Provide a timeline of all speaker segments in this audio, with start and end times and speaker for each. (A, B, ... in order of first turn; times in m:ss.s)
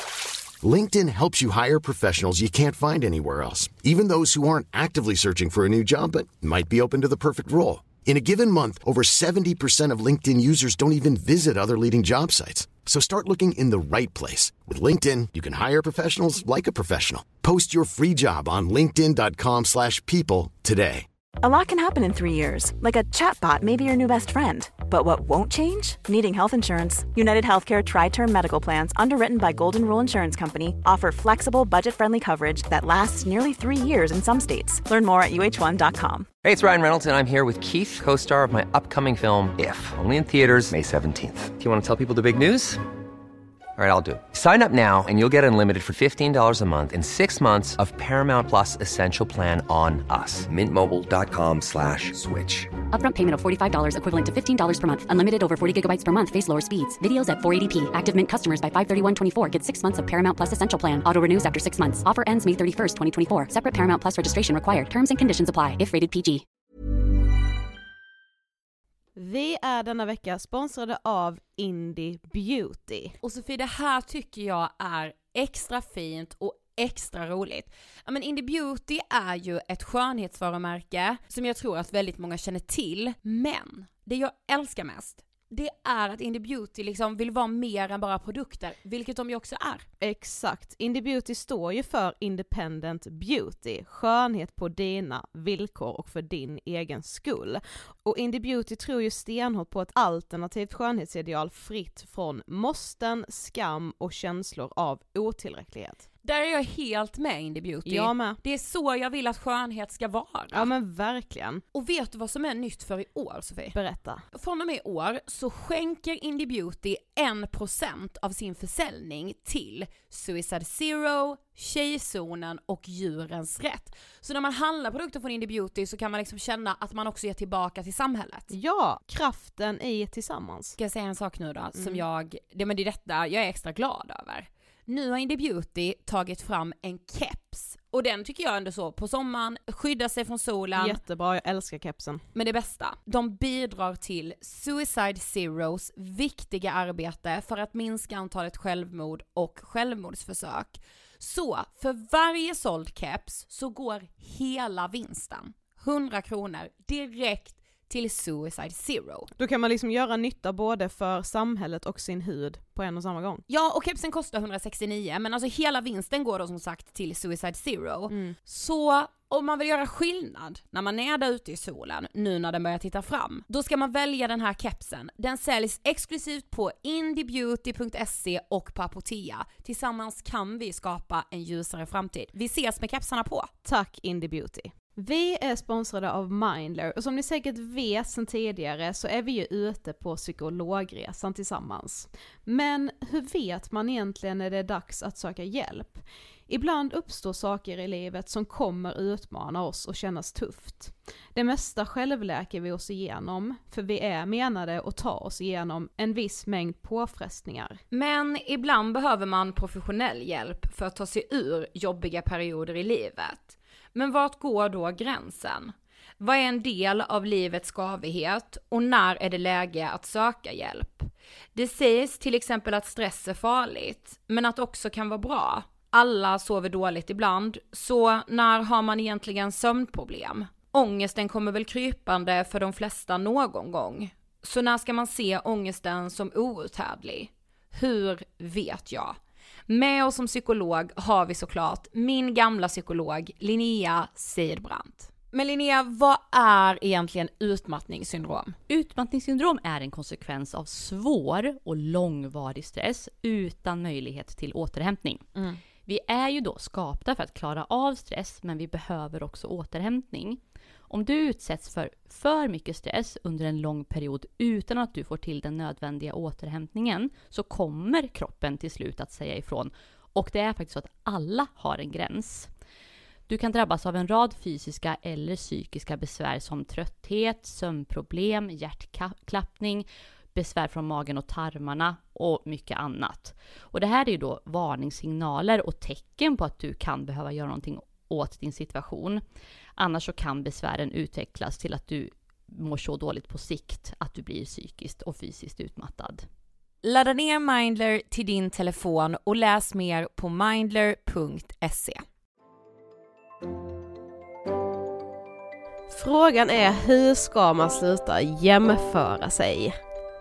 0:00.6-0:21.1 A
0:21.4-0:36.3 B
0:36.4-0:42.8 C
0:43.8-0:52.7 C
0:52.9-1:06.4 D
1:09.2-1:13.1 E
1:13.2-1:29.9 F
1:30.0-1:46.0 E
1:46.2-1:50.6 F
1:47.9-1:48.4 E
1:50.5-1:51.6 E
1:51.7-1:53.8 F
1:53.7-1:54.2 E
1:54.3-2:08.5 F
2:08.5-2:10.8 E
2:10.8-2:21.0 F
2:11.8-2:12.0 E
2:20.8-2:22.2 E
2:22.4-2:39.3 F
2:39.4-2:43.4 E
2:43.5-3:03.5 F
2:48.1-2:48.4 E
3:03.6-3:27.8 E
3:27.9-3:59.2 F
3:59.7-4:08.6 F
4:08.7-4:15.3 G
4:15.9-4:32.5 G
4:33.3-4:49.2 G
4:49.8-4:56.3 G
4:56.8-5:02.0 F
5:05.9-5:09.8 E